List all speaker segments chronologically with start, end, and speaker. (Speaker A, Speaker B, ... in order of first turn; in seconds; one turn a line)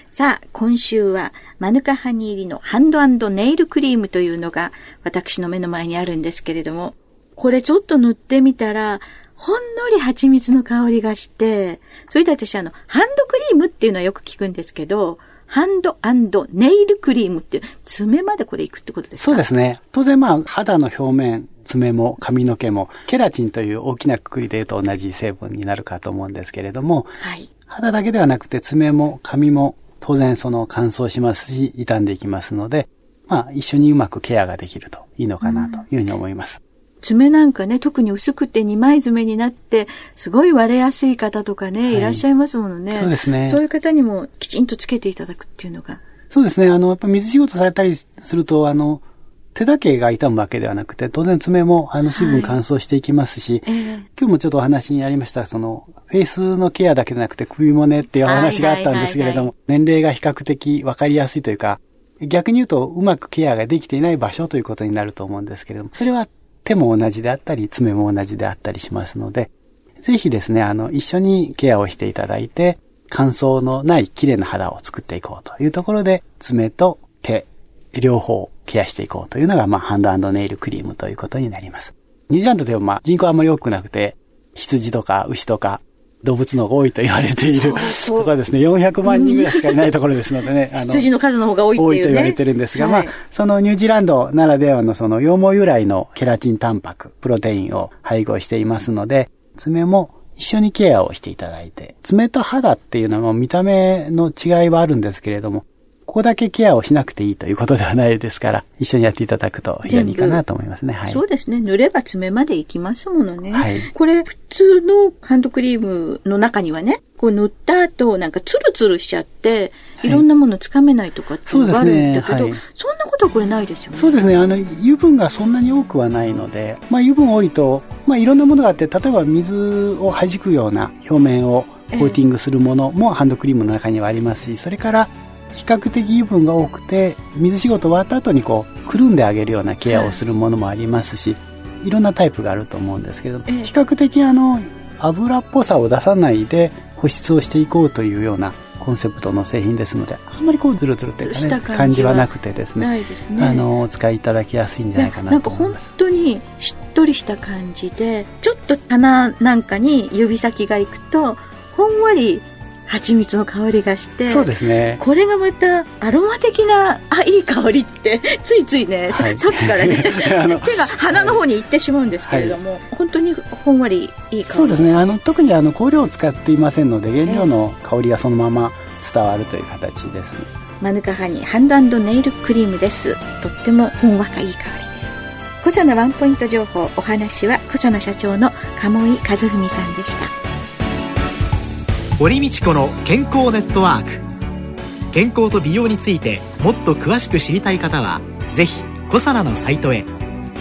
Speaker A: 0.1-19.4
Speaker B: 19.2-27.2
Speaker A: 27.2-27.5
Speaker B: 27.7-36.6
Speaker A: 35.4-35.8
Speaker A: 37.0-46.0
Speaker B: 41.9-42.2
Speaker B: 42.9-43.6
Speaker B: 46.3-49.0
Speaker B: 49.5-91.1
Speaker A: 52.0-52.6
Speaker A: 53.6-54.1
Speaker A: 58.2-59.5
Speaker A: 87.5-88.3
Speaker A: 89.0-89.8
Speaker A: 90.7-93.1
Speaker B: 91.7-111.2
Speaker A: 109.8-110.4
Speaker A: 111.1-124.2
Speaker B: 113.5-113.9
Speaker B: 121.5-122.6
Speaker B: 123.9-155.9
Speaker A: 131.9-132.2
Speaker A: 139.9-140.2
Speaker A: 143.5-143.7
Speaker A: 151.2-153.7
Speaker A: 154.9-175.1
Speaker B: 164.2-165.0
Speaker B: 169.1-171.4
Speaker B: 172.2-172.6
Speaker B: 174.4-180.5
Speaker A: 180.8-190.3
Speaker C: 192.2-194.2
Speaker C: 195.1-200.1